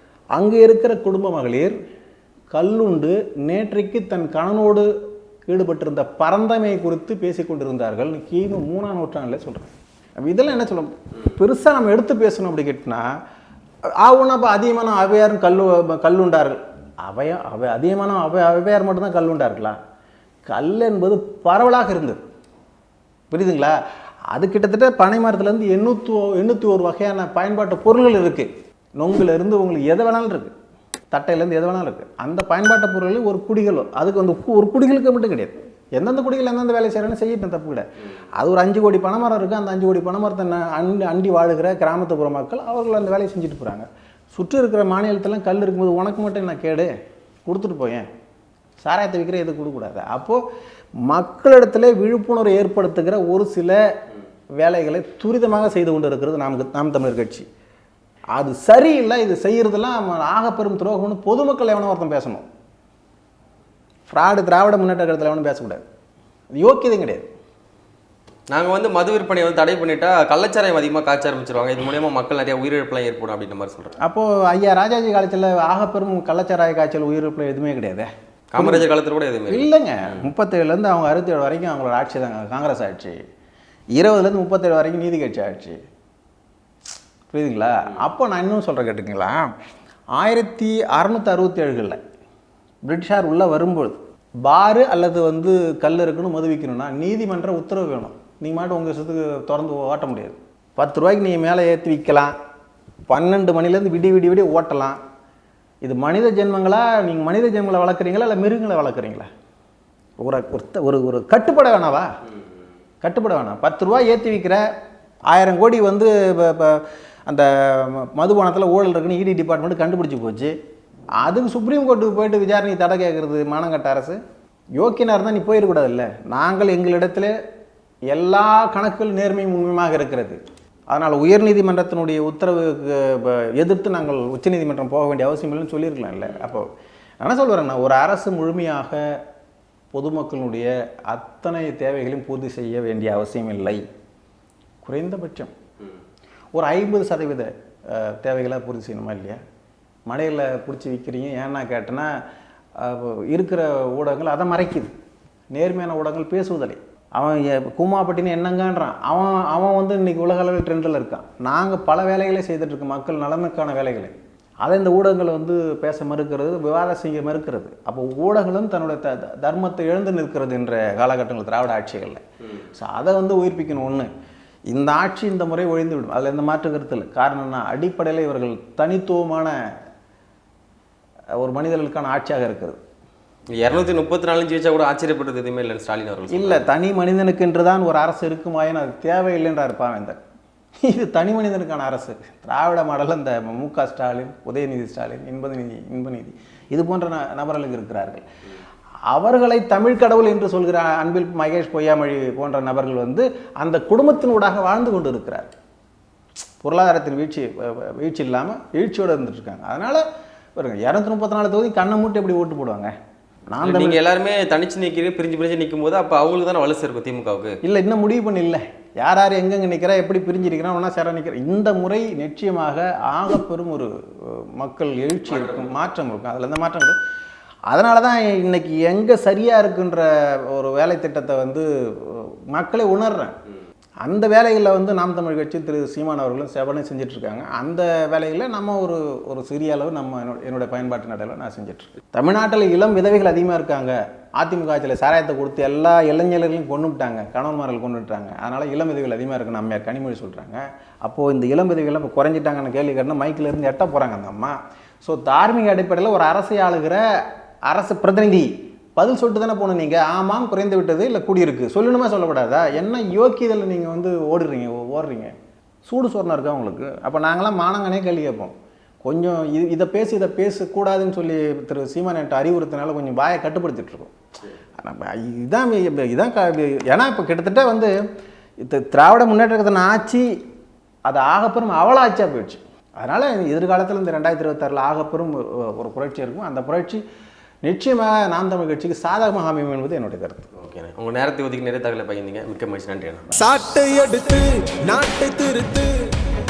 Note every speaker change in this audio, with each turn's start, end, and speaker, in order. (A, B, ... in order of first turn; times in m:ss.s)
0:00.3-0:01.7 A
0:02.5-0:04.9 A
0:05.5-0:09.7 A
0:10.2-0:13.0 A
0:14.0-0:19.8 A
0:20.5-0:22.2 A
0:23.3-0:23.7 A
0:24.3-0:30.5 A
0:31.1-0:37.8 A
0:38.4-0:46.9 A
0:47.4-0:48.1 A
0:48.8-0:50.4 A
0:51.0-0:53.8 A
0:54.6-0:57.5 A
0:58.3-1:02.4 A
1:04.1-1:05.8 A
1:06.6-1:07.3 A
1:08.5-1:14.0 B
1:14.0-1:18.9 A
1:18.5-1:19.7 B
1:19.5-1:23.2 A
1:24.0-1:25.8 A
1:27.3-1:29.5 A
1:30.1-1:32.0 A
1:32.8-1:42.3 A
1:43.1-1:45.0 A
1:45.8-1:49.3 A
1:50.2-1:52.1 A
1:53.0-1:54.6 A
1:55.3-2:00.5 A
2:01.2-2:04.2 A
2:04.8-2:07.3 A
2:08.1-2:16.7 A
2:17.2-2:19.1 A
2:19.9-2:23.8 A
2:24.8-2:25.5 A
2:26.5-2:29.4 A
2:30.1-2:32.1 A
2:32.8-2:34.9 A
2:35.5-2:52.2 A
2:52.7-2:54.1 A
2:54.7-2:59.5 A
3:01.4-3:02.8 A
3:03.5-3:06.6 B
3:06.3-3:10.2 A
3:10.8-3:18.2 A
3:19.1-3:25.5 A
3:26.6-3:30.0 A
3:30.6-3:32.9 A
3:33.5-3:34.0 A
3:33.6-3:37.6 B
3:37.6-3:47.0 A
3:45.3-3:45.7 B
3:47.7-3:53.4 A
3:54.0-4:17.0 A
4:17.7-4:25.3 A
4:25.8-4:34.1 A
4:34.8-4:38.0 A
4:38.6-4:40.3 A
4:41.1-4:47.0 A
4:47.6-4:50.5 A
4:50.5-4:53.3 B
4:53.3-4:55.9 C